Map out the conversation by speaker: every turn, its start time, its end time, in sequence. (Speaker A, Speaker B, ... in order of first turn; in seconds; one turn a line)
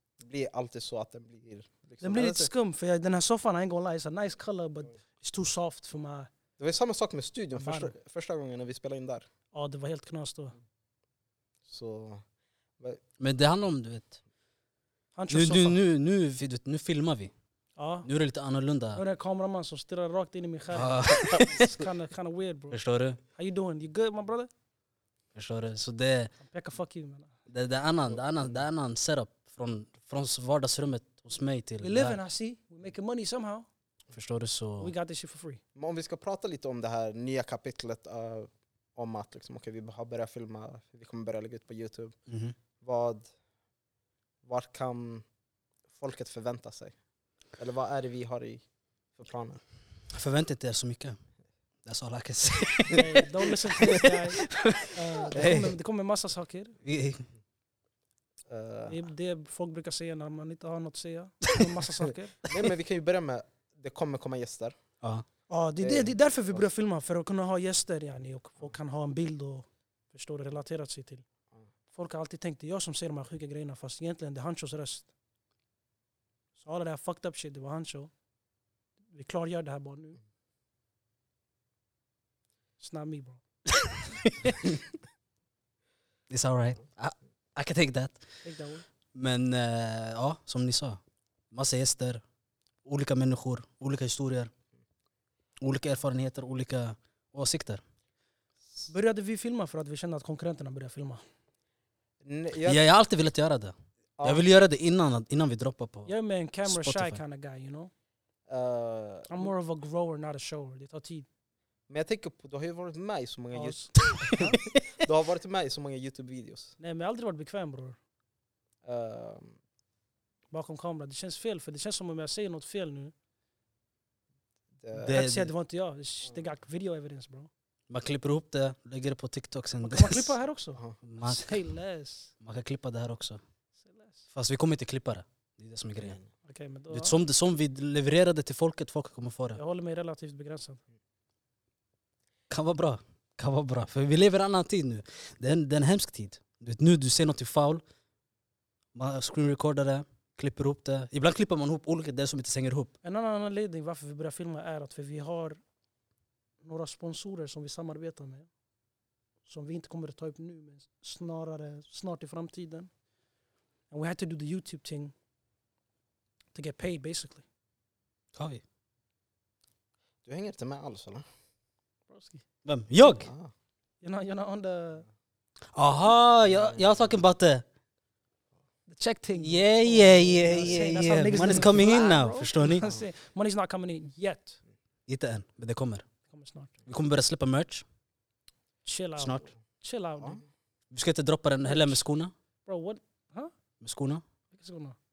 Speaker A: 0.2-2.5
Speaker B: 2.0-6.3
Speaker A: 6.6-9.3
Speaker B: 7.5-7.9
Speaker B: 9.5-10.6
Speaker A: 11.7-12.2
Speaker C: 13.2-14.2
Speaker B: 15.2-15.8
Speaker C: 15.3-17.3
Speaker B: 17.8-18.1
Speaker C: 18.0-19.0
Speaker B: 18.9-22.8
Speaker C: 20.7-21.8
Speaker C: 22.7-23.2
Speaker B: 23.3-24.5
Speaker C: 25.4-26.3
Speaker B: 26.4-27.3
Speaker C: 27.5-32.2
Speaker B: 31.8-33.7
Speaker C: 34.1-34.9
Speaker B: 34.8-35.6
Speaker A: 35.8-42.1
Speaker C: 42.3-42.5
Speaker A: 42.8-43.2
Speaker A: 44.4-45.2
Speaker A: 45.9-46.9
Speaker A: 47.6-48.6
Speaker A: 49.1-49.6
Speaker C: 50.1-51.2
Speaker C: 51.9-55.8
Speaker B: 52.9-56.8
Speaker C: 56.8-57.2
Speaker A: 58.5-59.0
Speaker B: 58.9-62.4
Speaker A: 62.5-64.8
Speaker B: 65.5-71.2
Speaker A: 65.8-66.6
Speaker B: 71.9-75.1
Speaker B: 76.6-78.1
Speaker B: 79.1-80.2
Speaker B: 82.8-83.4
Speaker C: 83.8-84.7
Speaker C: 86.3-88.3
Speaker B: 88.4-88.8
Speaker C: 89.1-91.0
Speaker C: 91.5-92.2
Speaker C: 92.8-94.5
Speaker C: 95.6-97.8
Speaker B: 98.9-101.2
Speaker A: 102.2-102.8
Speaker C: 102.6-106.1
Speaker A: 104.2-104.4
Speaker B: 106.0-107.9
Speaker C: 106.7-107.2
Speaker A: 108.5-109.5
Speaker B: 109.3-111.3
Speaker A: 111.9-116.7
Speaker B: 113.5-114.6
Speaker C: 114.1-114.8
Speaker B: 116.8-118.0
Speaker A: 118.8-119.6
Speaker B: 120.5-123.1
Speaker A: 124.8-125.2
Speaker C: 125.0-125.5
Speaker B: 125.1-127.5
Speaker C: 127.9-130.3
Speaker B: 129.8-132.3
Speaker C: 131.0-131.6
Speaker C: 132.4-133.4
Speaker B: 133.8-134.2
Speaker C: 134.3-136.2
Speaker A: 136.0-136.2
Speaker B: 136.4-137.2
Speaker C: 136.9-139.6
Speaker B: 139.5-140.8
Speaker C: 142.5-147.8
Speaker C: 148.9-152.9
Speaker B: 153.0-155.6
Speaker B: 156.6-158.5
Speaker B: 159.5-162.9
Speaker B: 163.9-165.1
Speaker B: 166.5-167.4
Speaker C: 168.3-168.6
Speaker A: 170.2-171.2
Speaker B: 172.1-172.4
Speaker C: 172.6-173.3
Speaker A: 173.2-173.5
Speaker B: 174.0-175.1
Speaker C: 175.8-177.6
Speaker B: 178.9-184.6
Speaker C: 179.4-182.9
Speaker C: 185.1-186.0
Speaker B: 186.3-186.8
Speaker C: 186.9-187.8
Speaker B: 188.8-190.4
Speaker C: 189.2-189.5
Speaker C: 190.9-192.3
Speaker B: 191.6-192.0
Speaker B: 192.7-193.5
Speaker C: 193.8-194.2
Speaker B: 194.5-195.0